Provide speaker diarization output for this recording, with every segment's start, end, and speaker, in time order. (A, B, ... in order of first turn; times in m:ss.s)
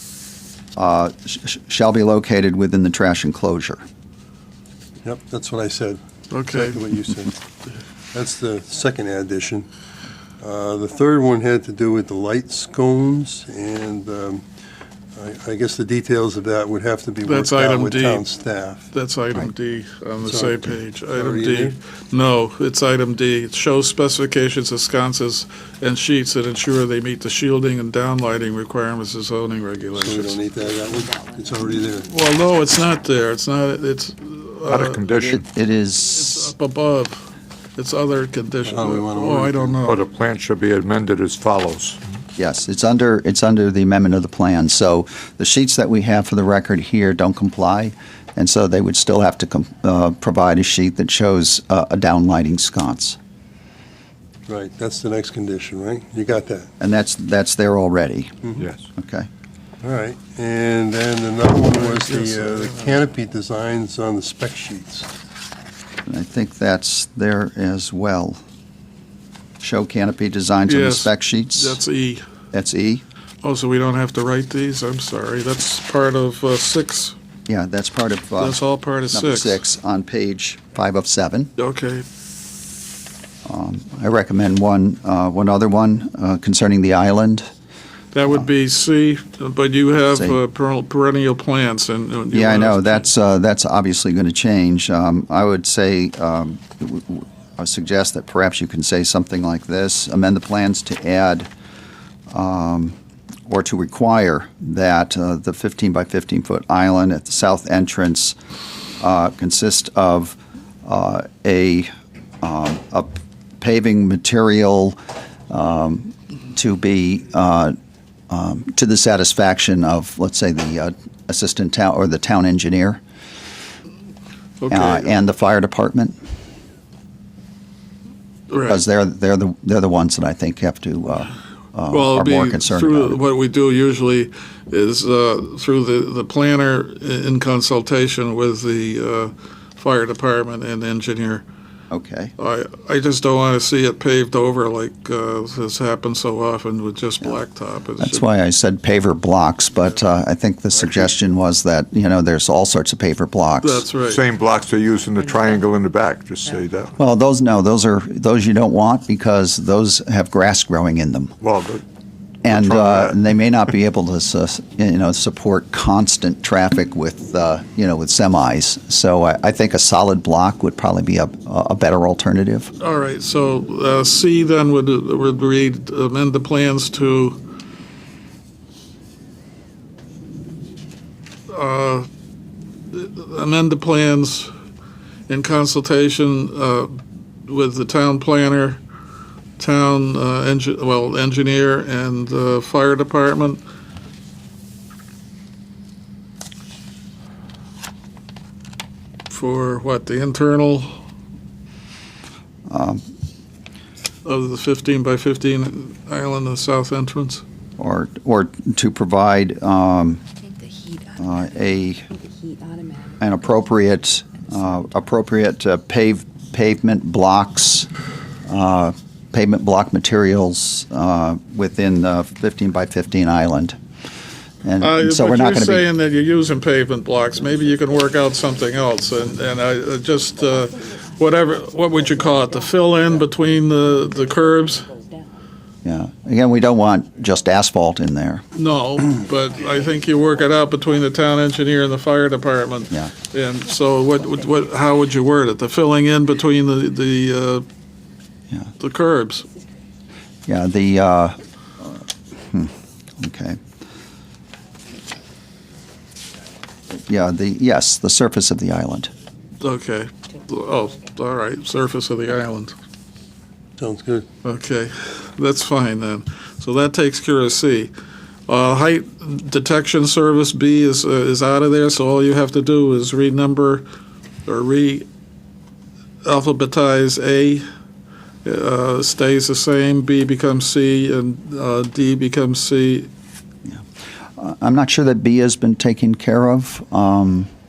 0:00.8-0:03.8 A
0:05.0-0:07.4 B
0:06.3-0:06.8 C
0:08.1-0:09.7 B
0:10.4-0:14.4 B
0:15.1-0:18.9 B
0:17.2-0:18.2 C
0:18.9-0:30.4 C
0:20.2-0:21.8 B
0:29.9-0:32.1 B
0:30.5-0:31.8 D
0:32.0-0:35.1 C
0:34.7-0:35.4 E
0:35.1-0:36.5 A
0:36.1-0:40.0 C
0:38.7-0:39.9 B
0:39.9-0:42.0 E
0:42.4-0:53.2 A
0:54.5-0:56.7 B
0:56.8-0:58.4 A
0:58.6-0:58.9 E
0:59.0-0:59.3 A
0:59.8-1:05.1 B
1:01.7-1:03.0 C
1:06.1-1:08.4 A
1:09.6-1:11.8 A
1:10.7-1:12.2 C
1:12.5-1:13.0 A
1:13.4-1:17.2 C
1:17.5-1:18.6 A
1:18.4-1:19.6 C
1:19.1-1:21.5 A
1:21.6-1:22.0 C
1:23.4-1:27.5 A
1:28.1-1:33.1 C
1:30.1-1:30.4 A
1:32.3-1:41.5 A
1:42.3-1:43.0 A
1:43.5-1:48.4 A
1:49.0-1:51.9 A
1:52.4-1:55.0 A
1:55.5-1:57.8 A
1:58.3-2:03.0 A
2:04.6-2:05.1 C
2:04.7-2:06.2 A
2:08.5-2:08.8 C
2:08.7-2:13.2 A
2:11.9-2:21.4 C
2:21.9-2:22.3 A
2:22.4-2:28.2 C
2:28.0-2:33.9 A
2:30.8-2:31.1 E
2:33.6-2:34.2 C
2:34.1-2:36.9 E
2:37.0-2:41.3 A
2:41.4-2:41.8 E
2:42.4-2:52.7 A
2:42.5-2:43.2 E
2:52.8-2:57.4 C
3:01.5-3:02.1 C
3:02.9-3:04.5 C
3:05.3-3:08.8 C
3:09.6-3:13.6 C
3:19.3-3:20.9 C
3:22.7-3:23.0 A
3:24.2-3:27.4 C
3:27.8-3:30.2 A
3:30.4-3:31.3 D
3:31.2-3:32.1 A
3:32.1-3:33.2 D
3:33.2-3:37.9 A
3:38.5-3:43.8 A
3:44.6-3:45.9 A
3:44.8-3:54.9 C
3:50.4-3:55.4 D
3:55.8-3:58.4 A
3:58.6-4:07.6 C
4:08.8-4:09.5 C
4:10.5-4:13.6 A
4:16.9-4:19.1 A
4:19.6-4:22.7 C
4:23.8-4:24.3 B
4:24.4-4:27.9 C
4:28.5-4:33.8 C
4:34.4-4:35.0 C
4:36.2-4:37.6 C
4:38.4-4:43.1 C
4:44.4-4:47.5 A